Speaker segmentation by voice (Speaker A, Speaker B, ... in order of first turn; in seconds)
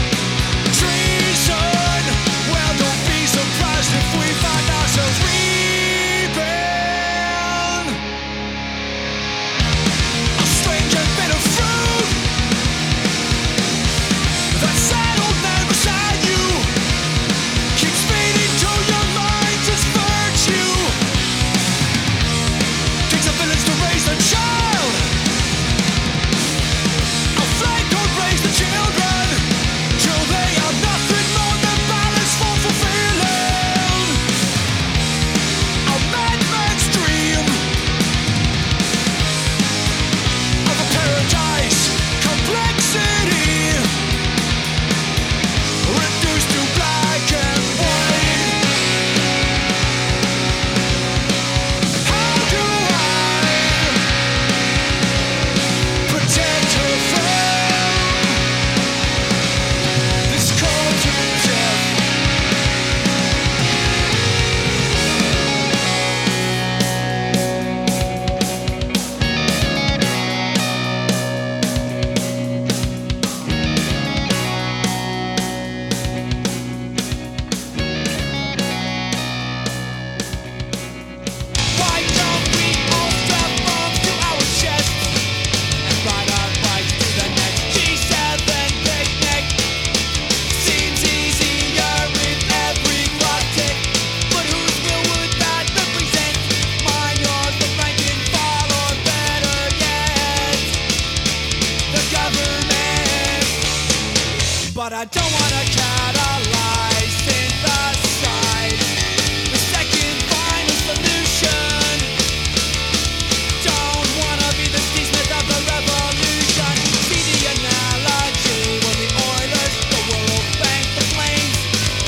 Speaker A: 0.7-8.0, 10.4-12.2, 14.5-16.7, 17.8-21.0, 23.1-25.1, 27.4-34.2, 35.9-37.6, 40.6-43.9, 45.8-48.6, 52.0-54.0, 56.0-58.4, 60.3-62.0, 81.7-85.2, 85.8-89.6, 90.5-100.8, 101.9-103.6, 104.6-112.1, 113.6-121.7